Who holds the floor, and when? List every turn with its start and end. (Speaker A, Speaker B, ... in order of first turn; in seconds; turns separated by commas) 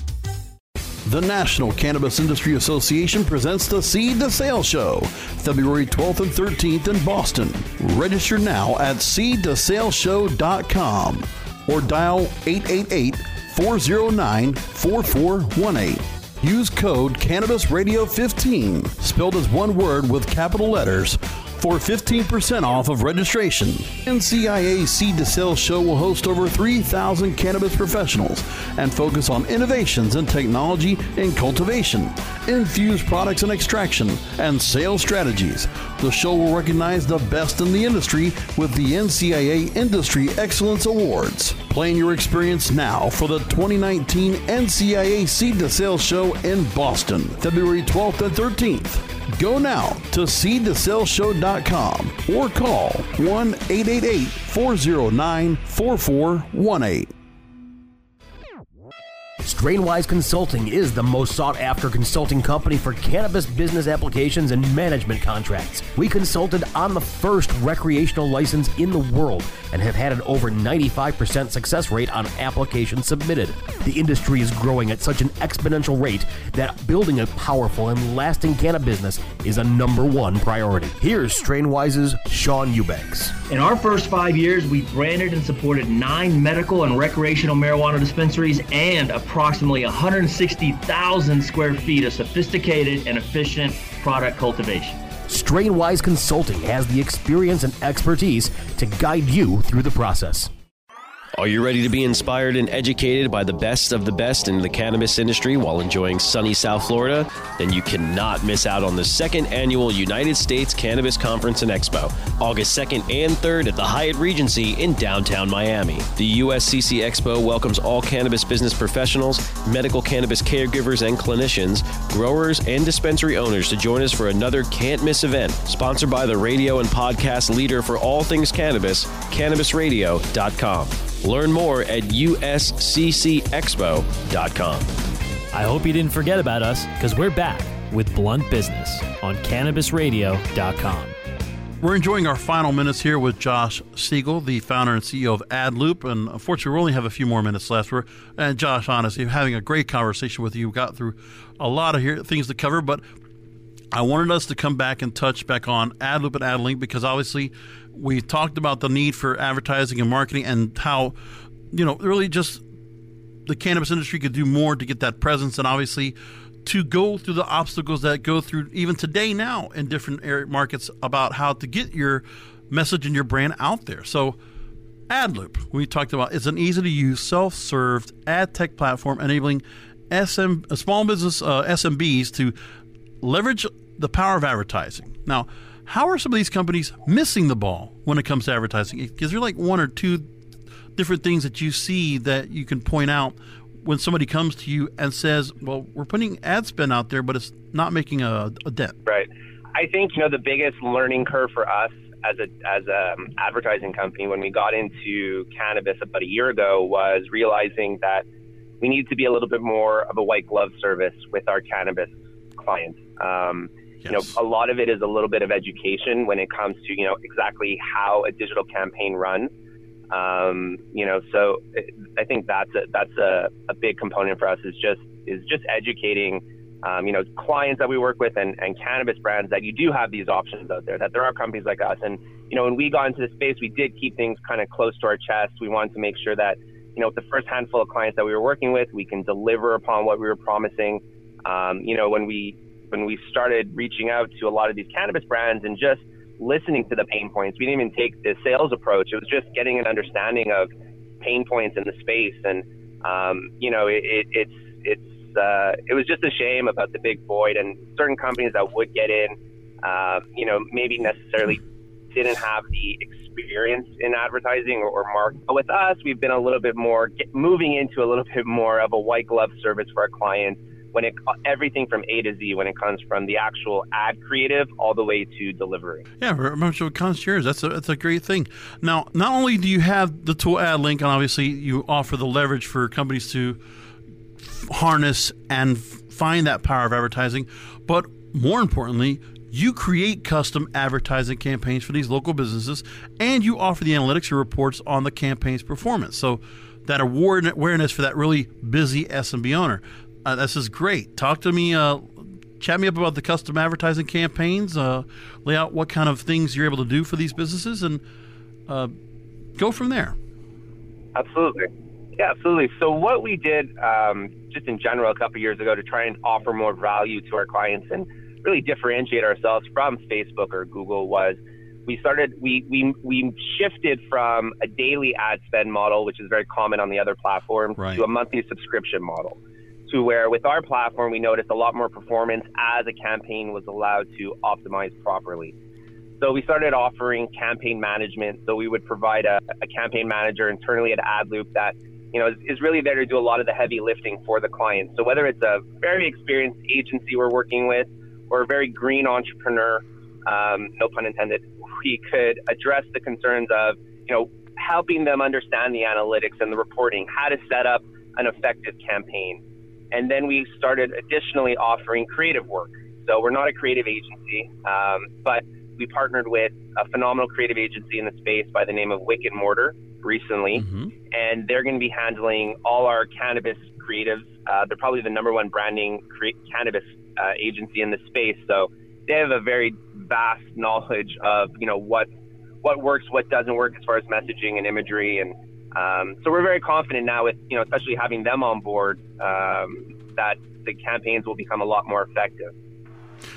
Speaker A: 1.1-57.1, Speaker B: 59.4-83.4, Speaker C: 83.5-95.0, Speaker B: 95.3-100.5, Speaker D: 101.4-134.9, Speaker E: 135.5-141.2, Speaker A: 141.8-153.0, Speaker A: 153.9-161.1, Speaker A: 161.7-162.6, Speaker A: 163.5-174.4, Speaker A: 175.1-182.6, Speaker A: 183.2-190.3, Speaker A: 191.0-199.0, Speaker F: 199.1-208.2, Speaker F: 208.8-219.5, Speaker A: 214.0-214.4, Speaker F: 220.1-250.7, Speaker F: 251.2-261.6, Speaker F: 262.1-276.0, Speaker A: 276.2-283.6, Speaker A: 284.4-308.0, Speaker A: 308.7-308.9, Speaker A: 309.6-310.2, Speaker F: 311.1-335.5, Speaker A: 327.8-328.0, Speaker F: 336.2-359.4, Speaker F: 359.9-382.1, Speaker A: 370.6-370.9, Speaker F: 382.6-392.5